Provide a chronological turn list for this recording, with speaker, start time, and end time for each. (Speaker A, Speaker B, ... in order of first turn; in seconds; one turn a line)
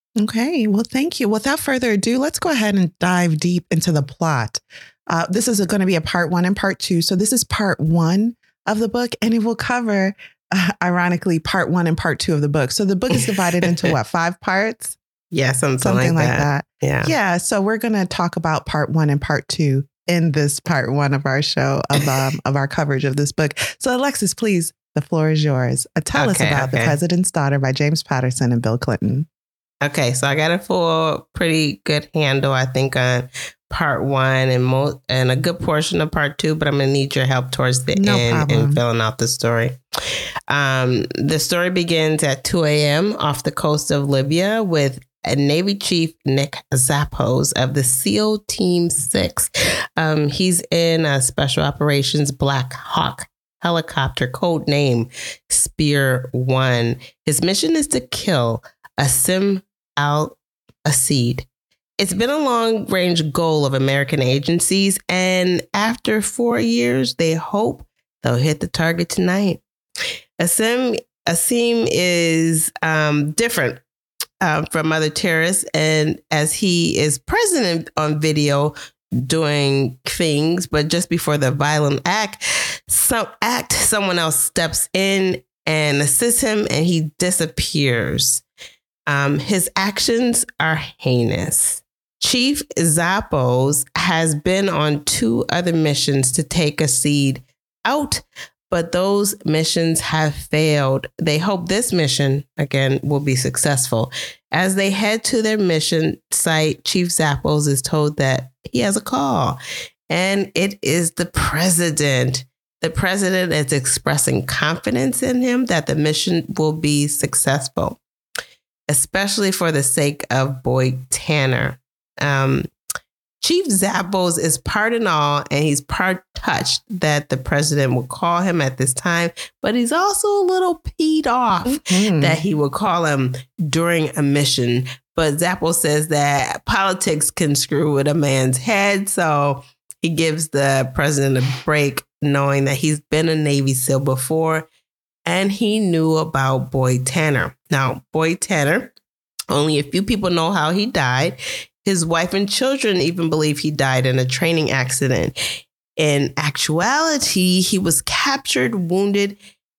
Speaker A: 0.2-15.0
Speaker B: 15.3-17.1
Speaker A: 15.8-29.3
Speaker B: 26.1-27.0
Speaker B: 29.8-39.8
Speaker A: 38.0-38.8
Speaker B: 40.5-61.5
Speaker B: 62.0-69.6
Speaker B: 70.4-73.8
Speaker B: 74.4-88.4
Speaker B: 89.1-109.6
Speaker B: 110.1-118.0
Speaker B: 118.9-122.7
Speaker B: 123.4-144.7
Speaker A: 131.7-132.4
Speaker B: 145.3-148.9
Speaker B: 149.5-155.4
Speaker B: 156.0-159.4